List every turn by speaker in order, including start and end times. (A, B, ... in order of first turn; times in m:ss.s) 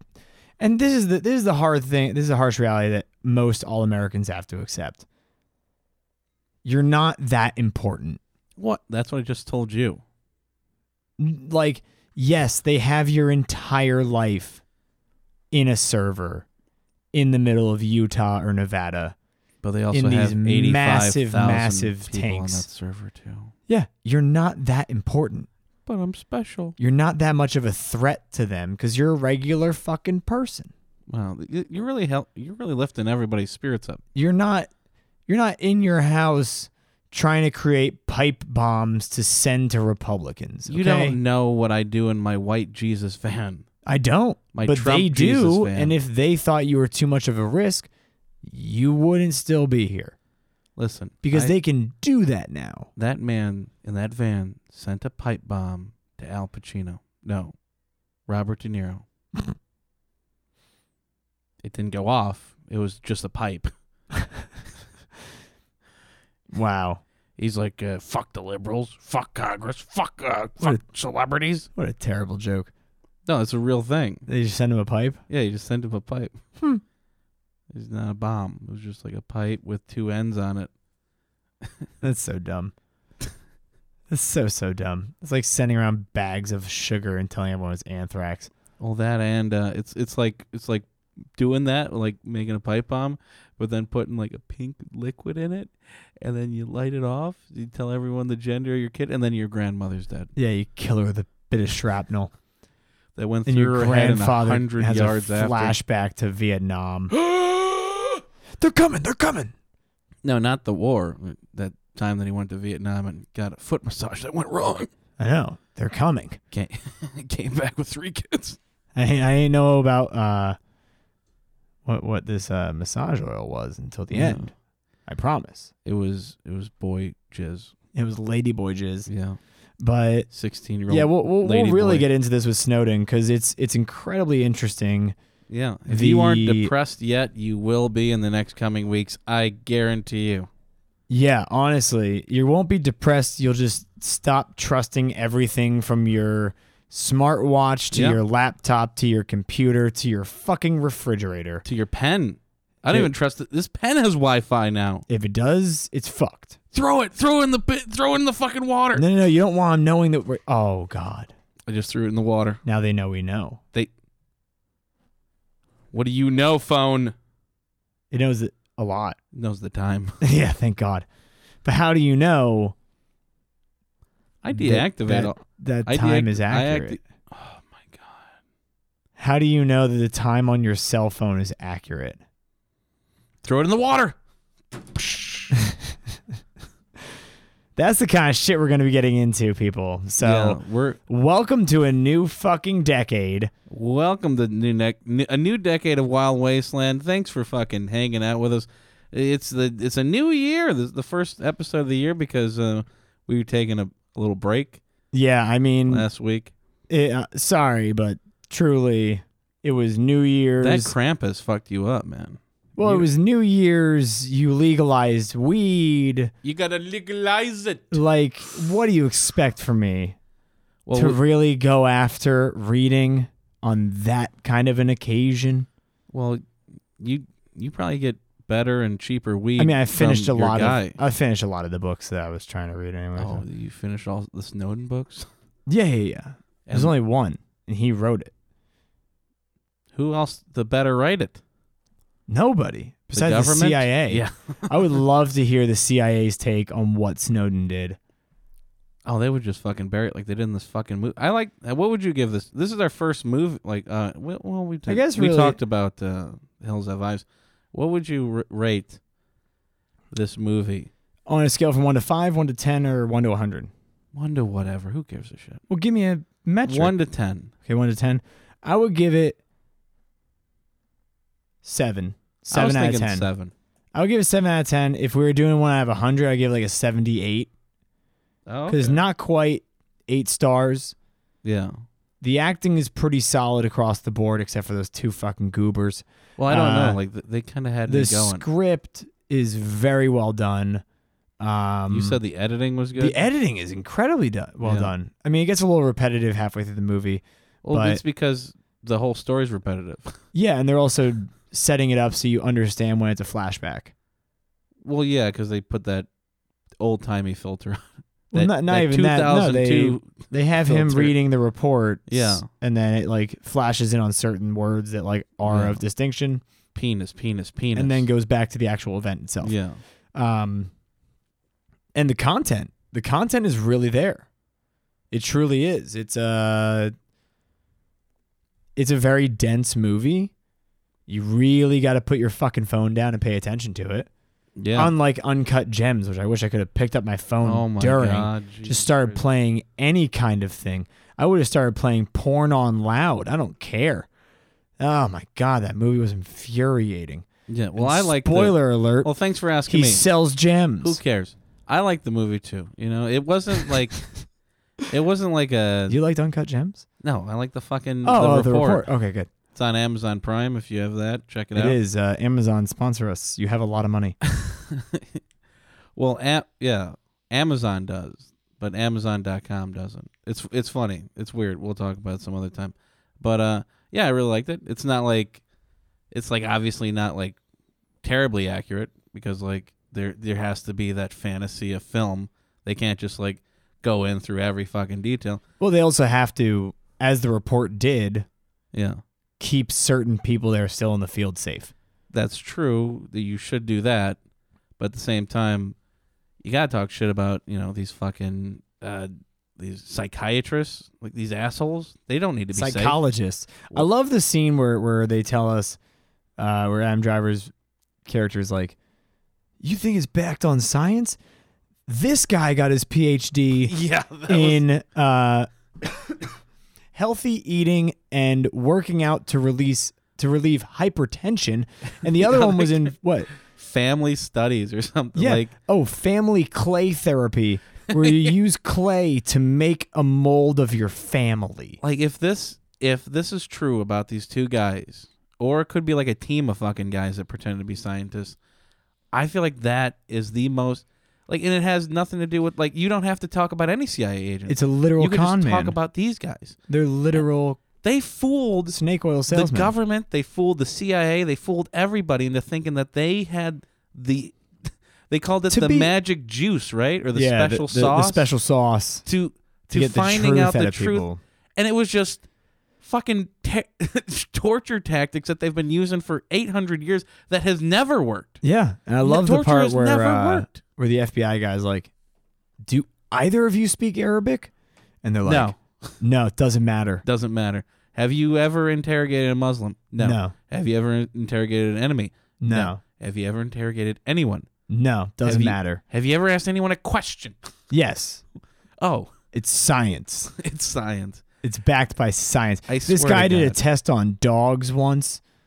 0:00.6-0:05.0 A
0:06.6-0:08.2 A
0:08.6-0:10.0 B
0:11.2-0:14.6 A
0:15.5-0:16.5 A
0:17.1-0:19.2 A
0:19.6-0:23.5 B
0:19.9-0:22.7 A
0:23.7-0:25.5 A
0:25.9-0:26.8 B
0:26.8-0:30.7 A
0:31.1-0:34.0 B
0:34.2-0:34.7 A
0:35.3-0:41.2 A
0:40.7-0:43.7 B
0:43.9-0:47.9 A
0:44.5-0:46.0 B
0:48.4-0:50.2 A
0:50.8-0:51.5 B
0:51.2-0:52.9 A
0:53.0-0:57.5 B
0:58.3-0:59.0 B
1:01.6-1:03.7 B
1:06.5-1:07.0 A
1:07.4-1:11.7 B
1:11.8-1:12.7 A
1:13.3-1:14.3 B
1:14.3-1:15.2 A
1:15.3-1:16.4 B
1:17.7-1:20.7 B
1:22.0-1:22.7 A
1:24.1-1:28.5 A
1:28.8-1:40.3 B
1:40.4-1:42.3 A
1:43.2-1:45.8 B
1:43.5-1:47.1 A
1:47.1-1:48.2 B
1:48.6-1:49.5 A
1:50.2-1:54.9 B
1:55.2-1:56.4 A
1:56.5-1:58.6 B
1:59.0-2:00.6 A
2:01.9-2:04.5 A
2:04.1-2:04.5 B
2:05.1-2:05.7 A
2:05.8-2:07.7 B
2:07.9-2:09.1 A
2:09.1-2:09.4 B
2:09.8-2:10.3 A
2:10.3-2:12.1 B
2:10.9-2:15.2 A
2:15.5-2:20.5 B
2:15.9-2:16.7 A
2:21.1-2:31.6 A
2:27.9-2:28.2 B
2:31.6-2:35.0 B
2:35.1-2:36.6 A
2:36.7-2:39.0 B
2:39.0-2:41.3 A
2:41.7-2:42.6 B
2:42.6-2:43.6 A
2:45.9-2:47.2 B
2:48.1-2:49.2 A
2:49.3-2:50.2 B
2:50.2-2:51.1 A
2:51.6-2:52.8 A
2:54.4-2:58.3 B
2:54.5-2:57.0 A
2:59.2-3:02.2 A
3:03.4-3:04.2 B
3:04.9-3:05.5 B
3:05.5-3:05.8 A
3:07.8-3:13.5 A
3:10.2-3:11.0 B
3:13.7-3:24.8 B
3:25.1-3:26.1 A
3:25.9-3:26.5 B
3:26.9-3:30.9 A
3:30.6-3:33.1 B
3:32.8-3:36.3 A
3:36.4-3:38.0 B
3:37.9-3:40.2 A
3:40.9-3:41.2 B
3:40.9-3:45.7 A
3:46.1-3:46.4 B
3:47.0-3:51.0 B
3:49.6-3:53.4 A
3:53.2-3:55.3 B
3:55.7-3:58.3 A
3:56.7-3:57.0 B
3:59.9-4:01.4 B
4:02.3-4:08.0 A
4:03.1-4:05.0 B
4:09.0-4:19.0 B
4:14.9-4:15.6 A
4:20.1-4:20.9 B
4:21.3-4:23.7 A
4:24.1-4:25.6 B
4:25.7-4:27.0 A
4:26.6-4:27.5 B
4:27.6-4:29.4 A
4:31.6-4:33.3 A
4:32.5-4:33.5 B
4:33.9-4:37.5 A
4:38.5-4:39.0 B
4:38.7-4:41.0 A
4:41.4-4:41.8 B
4:42.2-4:47.0 A
4:46.4-4:48.4 B
4:47.9-4:50.8 A
4:51.4-4:52.2 A
4:51.9-4:53.3 B
4:53.0-4:58.0 A
4:54.6-4:54.9 B
4:57.6-5:00.2 B
5:00.3-5:03.9 A
5:04.8-5:06.1 B
5:06.8-5:11.2 B
5:08.3-5:16.4 A
5:12.1-5:12.5 B
5:15.5-5:15.8 B
5:16.8-5:18.1 B
5:17.8-5:19.6 A
5:19.4-5:19.8 B
5:20.2-5:20.7 A
5:22.0-5:24.3 A
5:25.1-5:26.9 A
5:28.8-5:30.3 A
5:31.1-5:34.1 A
5:34.6-5:34.9 B
5:34.7-5:44.1 A
5:37.4-5:39.2 B
5:44.8-5:49.1 A
5:47.5-5:50.0 B
5:49.7-5:51.0 A
5:50.8-5:54.0 B
5:54.9-5:56.0 B
5:55.9-5:56.8 A
5:57.0-5:58.9 B
5:58.0-5:59.3 A
5:59.5-6:01.8 B
6:01.6-6:04.2 A
6:04.2-6:05.2 B
6:06.0-6:15.4 B
6:16.1-6:17.4 B
6:18.0-6:25.4 B
6:25.6-6:28.3 A
6:28.7-6:29.0 B
6:29.4-6:31.7 A
6:32.1-6:34.2 B
6:34.8-6:35.8 B
6:36.4-6:43.0 B
6:42.5-6:45.8 A
6:46.4-6:47.5 A
6:48.0-6:48.8 A
6:49.6-6:51.2 A
6:51.9-6:53.7 A
6:53.7-6:54.6 B
6:54.3-6:55.5 A
6:56.9-7:03.3 A
7:02.0-7:02.9 B
7:03.4-7:05.5 B
7:05.2-7:11.8 A
7:08.0-7:08.3 B
7:11.8-7:18.4 B
7:19.1-7:26.6 B
7:24.5-7:25.8 A
7:26.7-7:27.6 A
7:27.8-7:28.8 B
7:28.7-7:29.7 A
7:29.3-7:38.3 B
7:35.5-7:35.9 A
7:37.2-7:39.1 A
7:39.1-7:42.2 B
7:39.7-7:41.2 A
7:42.8-7:48.4 B
7:48.4-7:51.9 A
7:49.0-7:50.6 B
7:52.7-7:54.5 A
7:55.0-7:57.0 A
7:55.2-7:56.0 B
7:57.0-8:04.5 B
8:00.0-8:00.3 A
8:02.4-8:02.8 A
8:04.7-8:05.8 A
8:05.2-8:07.4 B
8:07.7-8:08.2 A
8:08.8-8:09.1 B
8:09.3-8:10.3 A
8:10.4-8:11.2 B
8:11.4-8:15.2 A
8:12.7-8:13.6 B